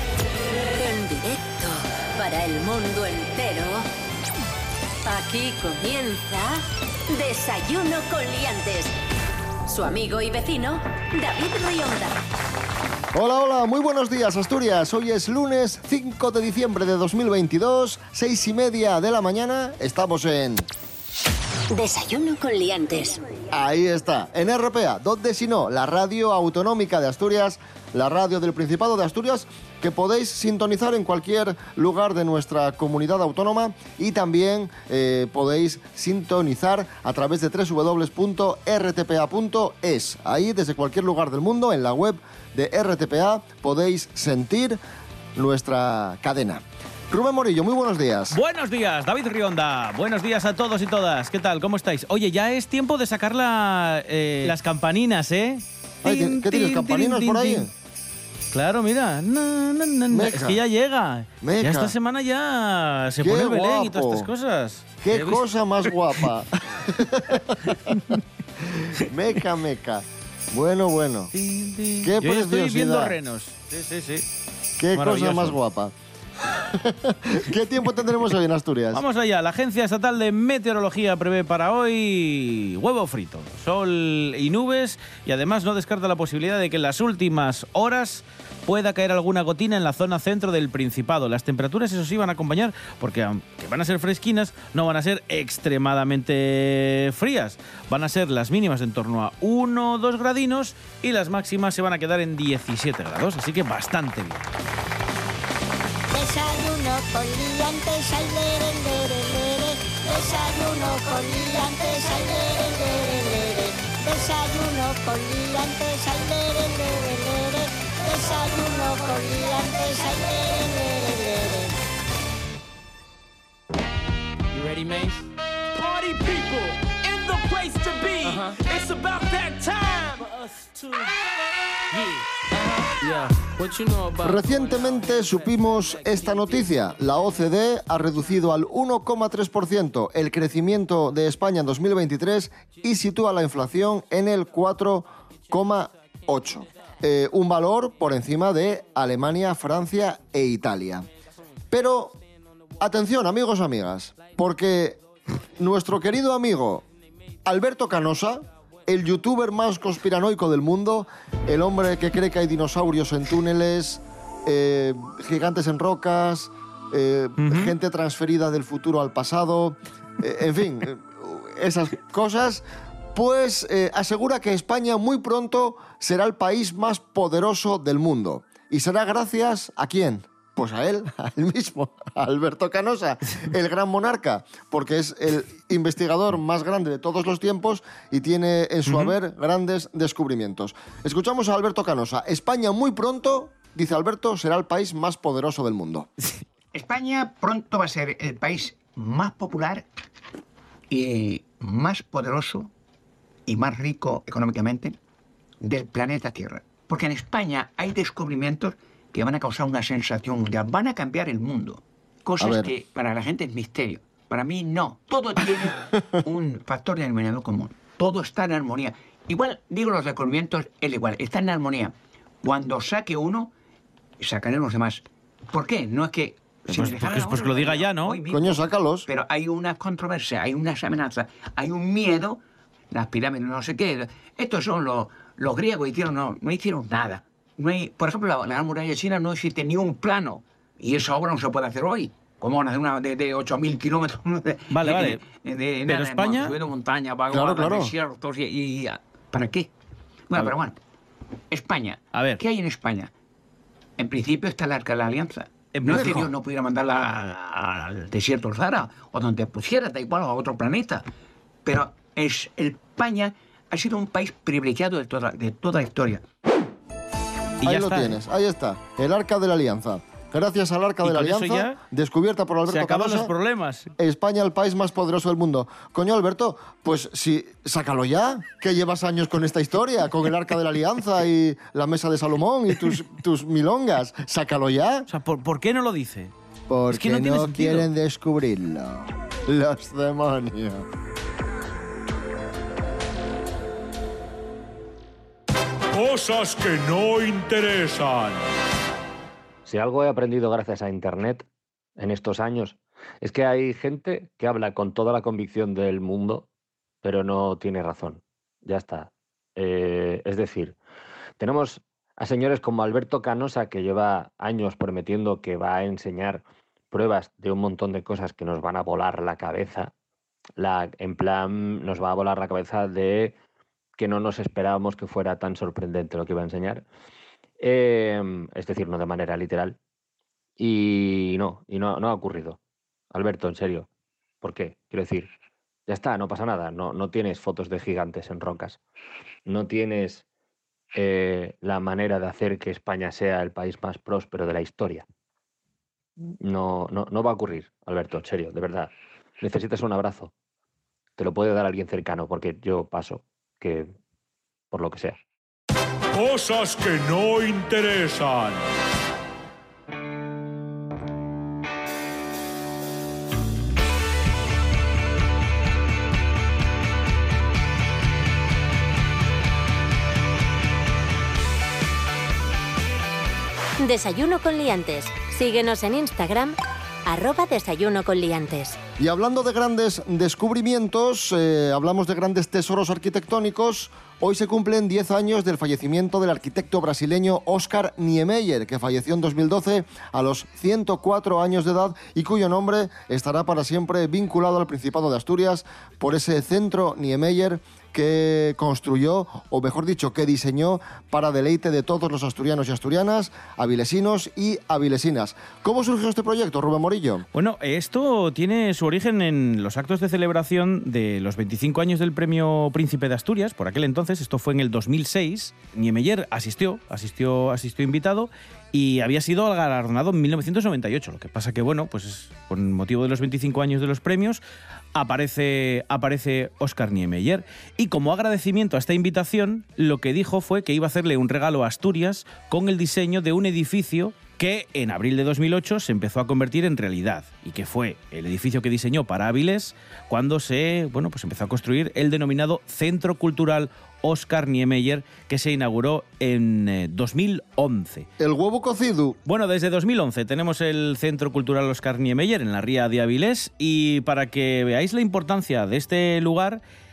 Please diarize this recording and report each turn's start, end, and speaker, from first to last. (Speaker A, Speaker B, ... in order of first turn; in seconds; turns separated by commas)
Speaker A: 0.6-3.9, Speaker A: 5.0-8.9, Speaker A: 9.7-12.2, Speaker B: 13.1-20.7, Speaker A: 21.7-23.2, Speaker B: 23.5-44.8, Speaker B: 45.4-48.4, Speaker C: 48.3-57.7, Speaker B: 56.0-57.7, Speaker C: 58.5-65.9, Speaker B: 60.1-60.6, Speaker B: 61.4-61.9, Speaker B: 63.2-64.3, Speaker B: 65.0-67.9, Speaker C: 67.1-68.2, Speaker B: 68.9-71.3, Speaker C: 71.3-74.2, Speaker B: 72.0-73.1, Speaker B: 74.8-75.9, Speaker C: 74.9-75.6, Speaker B: 76.5-79.0, Speaker C: 78.9-104.4, Speaker D: 106.1-121.7, Speaker E: 124.5-131.1, Speaker E: 131.9-136.6, Speaker B: 134.2-151.1, Speaker B: 151.7-152.2, Speaker B: 152.8-155.0, Speaker B: 155.6-156.8, Speaker B: 157.4-172.6, Speaker C: 167.4-167.7, Speaker B: 173.1-196.1, Speaker C: 188.9-189.1, Speaker F: 196.7-199.8, Speaker F: 200.9-202.7, Speaker F: 203.5-205.0, Speaker F: 205.6-223.5, Speaker B: 212.4-212.7, Speaker F: 224.2-232.4, Speaker C: 226.7-228.2, Speaker B: 228.3-229.1, Speaker F: 232.9-249.7, Speaker C: 244.7-245.2, Speaker C: 245.8-246.6, Speaker B: 247.3-247.9, Speaker F: 250.3-250.8, Speaker F: 251.5-253.1, Speaker C: 252.1-252.4, Speaker F: 254.0-261.0, Speaker C: 255.7-256.3, Speaker F: 261.6-266.2, Speaker B: 267.6-273.3, Speaker C: 267.6-268.2, Speaker C: 271.0-271.8, Speaker C: 272.7-273.9, Speaker B: 274.0-285.1, Speaker C: 285.1-286.3, Speaker B: 286.7-290.9, Speaker C: 286.9-287.9, Speaker G: 295.9-298.4, Speaker H: 299.6-301.4, Speaker H: 302.0-306.5, Speaker H: 307.0-310.8, Speaker H: 311.4-319.9, Speaker H: 320.6-323.4, Speaker H: 324.0-326.8, Speaker H: 327.6-329.8, Speaker H: 330.6-332.6, Speaker H: 333.1-333.9, Speaker H: 334.4-335.3, Speaker H: 335.9-338.8, Speaker H: 339.4-340.2, Speaker H: 340.9-345.0, Speaker H: 346.2-348.9, Speaker H: 349.4-350.3, Speaker H: 351.2-353.9, Speaker H: 354.7-355.2, Speaker G: 356.1-358.6, Speaker A: 373.8-378.8, Speaker B: 379.0-407.2, Speaker C: 407.3-424.4, Speaker C: 424.9-448.1, Speaker B: 448.2-449.2, Speaker C: 449.2-456.6